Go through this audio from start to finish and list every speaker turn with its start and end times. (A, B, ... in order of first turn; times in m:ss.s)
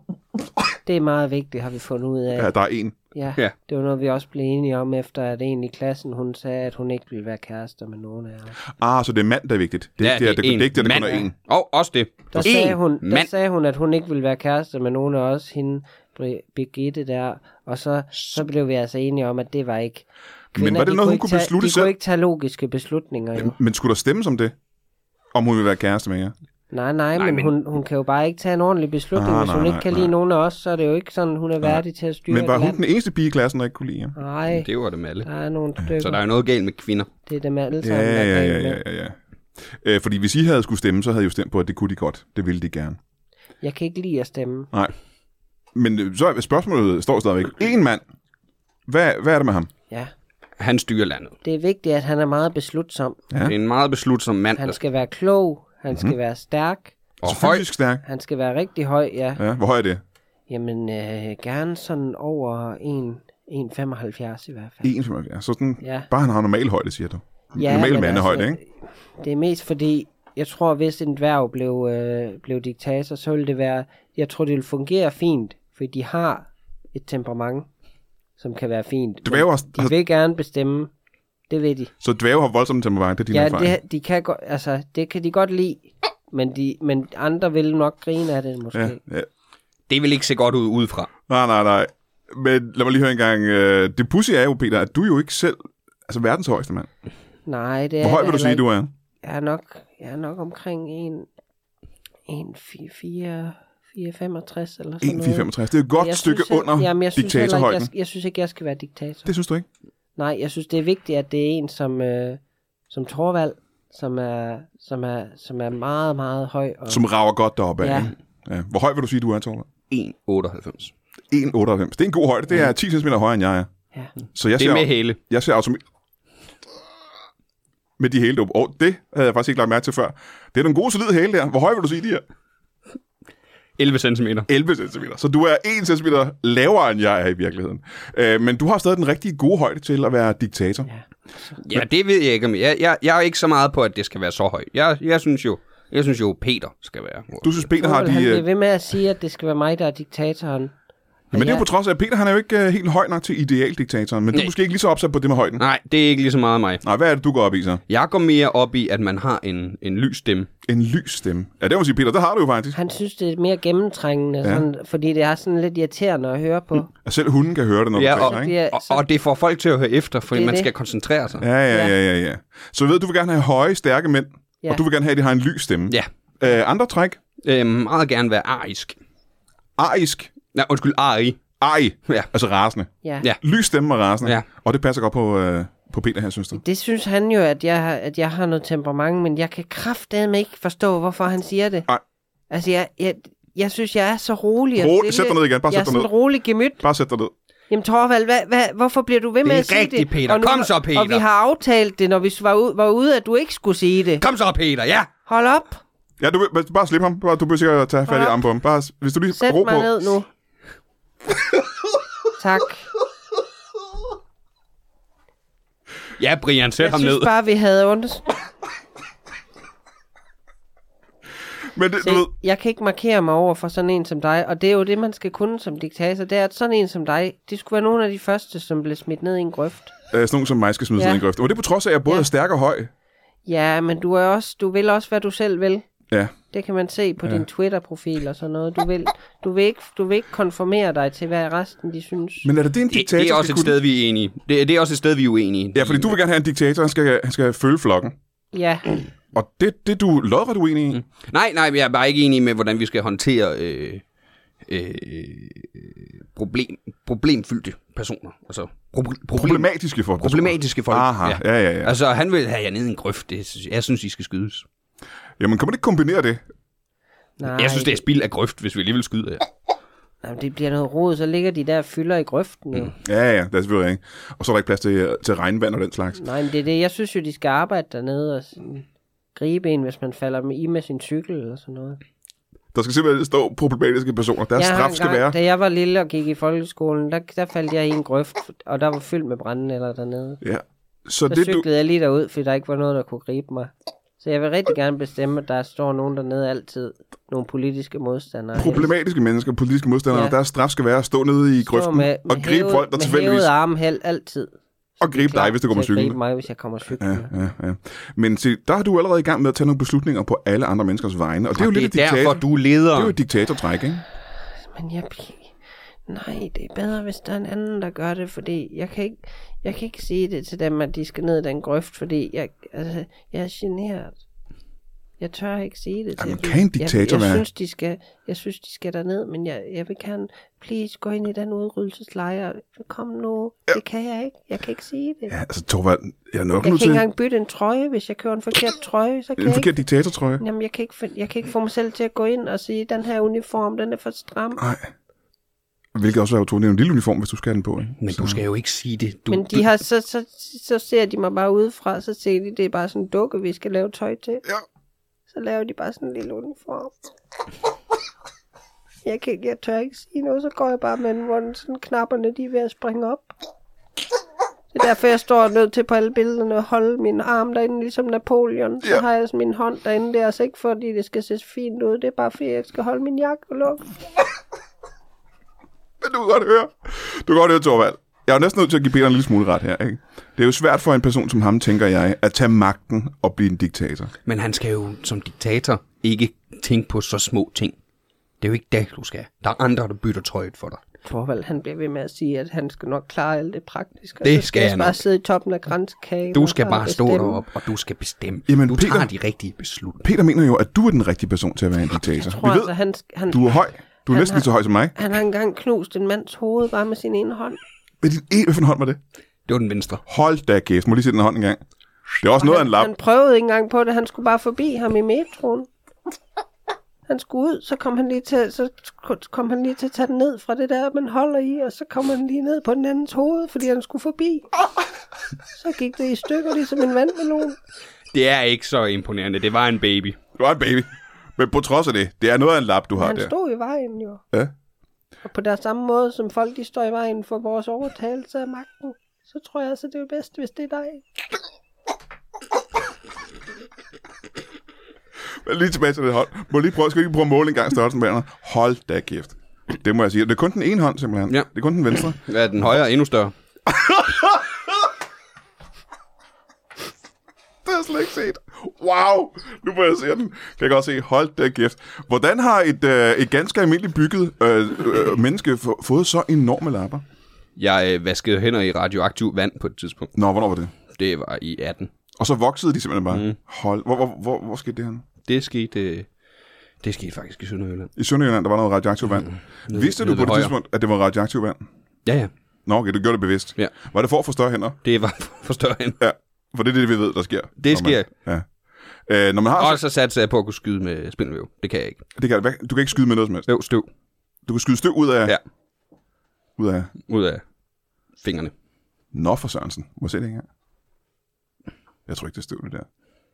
0:00.9-0:02.5 A
0:02.4-0:03.0 B
0:03.1-0:08.6 A
0:08.7-0:11.3 B
0:10.0-0:13.3 C
0:11.0-0:11.2 A
0:12.3-0:23.6 A
0:20.6-0:21.9 B
0:23.4-0:24.5 B
0:25.3-0:26.3 B
0:26.7-0:32.8 A
0:27.2-0:27.5 C
0:29.2-0:30.1 B
0:31.6-0:34.2 B
0:34.2-0:34.7 A
0:34.5-0:35.3 C
0:35.2-0:36.2 A
0:36.0-0:37.1 C
0:37.3-0:38.8 A
0:37.8-0:43.0 B
0:43.6-0:44.7 A
0:45.8-0:48.0 B
0:48.9-0:49.7 B
0:50.6-0:51.4 C
0:51.4-0:53.2 A
0:53.4-0:54.8 C
0:54.6-0:57.0 A
0:55.9-0:56.2 B
0:57.2-0:57.6 C
0:57.2-0:58.0 B
0:58.0-0:59.4 A
0:59.4-1:00.0 B
1:00.5-1:04.9 A
1:04.8-1:08.6 B
1:05.8-1:06.1 A
1:07.6-1:17.7 A
1:18.4-1:20.9 A
1:19.2-1:20.0 B
1:21.5-1:21.9 A
1:22.0-1:23.8 B
1:23.3-1:29.0 A
1:28.7-1:29.3 B
1:29.9-1:31.1 C
1:31.3-1:36.9 B
1:37.5-1:38.6 A
1:38.0-1:38.9 B
1:39.2-1:41.3 A
1:42.3-1:49.3 A
1:45.0-1:47.9 B
1:49.3-1:49.7 B
1:50.2-1:57.0 A
1:56.9-1:59.7 B
1:57.8-1:58.1 A
1:59.9-2:00.9 C
2:01.3-2:03.7 B
2:04.3-2:05.8 B
2:04.6-2:05.2 C
2:08.0-2:12.2 B
2:13.8-2:14.5 C
2:14.5-2:20.9 B
2:20.9-2:21.6 A
2:21.6-2:27.6 C
2:27.4-2:28.4 B
2:27.8-2:30.7 A
2:31.3-2:31.6 A
2:31.3-2:35.6 B
2:35.6-2:36.8 C
2:36.8-2:37.8 B
2:37.9-2:40.5 C
2:40.7-2:42.8 B
2:42.7-2:46.9 A
2:47.0-2:48.5 B
2:48.0-2:51.5 C
2:48.2-2:49.0 A
2:50.3-2:50.7 A
2:51.4-2:57.2 B
2:57.4-2:59.0 C
2:59.8-3:00.3 B
3:00.5-3:01.4 C
3:01.6-3:02.9 B
3:03.4-3:06.6 B
3:06.5-3:11.9 A
3:12.5-3:16.8 A
3:14.8-3:16.1 B
3:16.8-3:17.3 B
3:17.7-3:24.2 A
3:19.4-3:21.2 C
3:24.2-3:25.1 C
3:25.3-3:25.8 A
3:26.2-3:30.0 B
3:28.1-3:28.4 A
3:29.3-3:30.3 A
3:32.4-3:32.9 A
3:36.2-3:37.3 C
3:36.8-3:38.4 A
3:41.7-3:42.3 B
3:42.0-3:49.9 A
3:50.1-3:52.9 B
3:51.0-3:51.2 A
3:53.5-3:55.9 A
3:56.5-4:02.5 A
4:02.4-4:03.8 B
4:02.9-4:06.1 C
4:05.8-4:08.1 B
4:08.5-4:08.9 A
4:09.3-4:11.0 B
4:10.9-4:14.0 C
4:14.6-4:19.7 C
4:19.3-4:22.0 B
4:20.2-4:24.7 C
4:25.4-4:26.4 B
4:27.4-4:28.0 A
4:27.5-4:29.5 C
4:30.2-4:32.9 A
4:33.0-4:36.2 B
4:36.2-4:42.0 A
4:42.7-4:45.4 B
4:44.6-4:50.4 A
4:50.4-4:51.7 B
4:51.3-4:58.9 A
4:58.6-5:03.5 B
5:00.1-5:00.4 A
5:01.6-5:07.3 A
5:05.0-5:06.2 B
5:07.0-5:14.0 B
5:11.6-5:13.2 C
5:14.7-5:15.6 A
5:16.1-5:24.2 A
5:25.2-5:35.4 A
5:26.2-5:27.4 B
5:35.3-5:37.0 B
5:36.6-5:39.7 A
5:39.4-5:40.4 B
5:40.4-5:44.6 A
5:44.6-5:44.9 B
5:46.0-5:48.4 B
5:48.0-5:49.7 C
5:49.3-5:54.4 A
5:55.3-5:57.0 A
5:59.0-6:03.3 A
6:04.7-6:13.9 A
6:16.0-6:24.1 B
6:24.3-6:27.8 C
6:28.4-6:30.8 C
6:31.0-6:37.4 A
6:34.2-6:35.0 C
6:36.3-6:40.0 C
6:38.5-6:39.1 B
6:40.0-6:42.7 B
6:42.2-6:43.6 A
6:43.3-6:45.0 B
6:44.1-6:47.6 A
6:48.0-6:49.0 B
6:49.5-6:50.0 C
6:50.1-6:51.6 B
6:52.2-6:52.9 B
6:52.4-6:55.7 A
6:57.1-7:04.5 A
7:05.5-7:07.6 A
7:08.1-7:10.2 C
7:10.4-7:13.3 B
7:13.0-7:14.2 A
7:15.2-7:21.0 A
7:25.4-7:32.2 B
7:31.3-7:33.3 C
7:33.7-7:34.8 B
7:37.6-7:47.0 B
7:47.6-7:50.1 C
7:50.2-7:50.7 B
7:50.9-7:51.9 C
7:52.2-7:55.0 B
7:53.1-7:53.4 C
7:55.3-7:56.1 C
7:56.8-7:57.9 C
7:58.0-8:01.6 B
7:59.1-8:00.5 C
8:02.1-8:02.3 C
8:02.7-8:04.8 B
8:04.8-8:06.0 C
8:06.0-8:08.5 B
8:07.6-8:08.1 C
8:09.1-8:09.8 B
8:09.6-8:12.0 C
8:12.2-8:13.5 B
8:13.5-8:13.9 C
8:14.5-8:15.4 B
8:16.6-8:16.9 B
8:17.1-8:17.4 C
8:18.2-8:18.5 C
8:19.1-8:20.5 B
8:22.1-8:22.9 B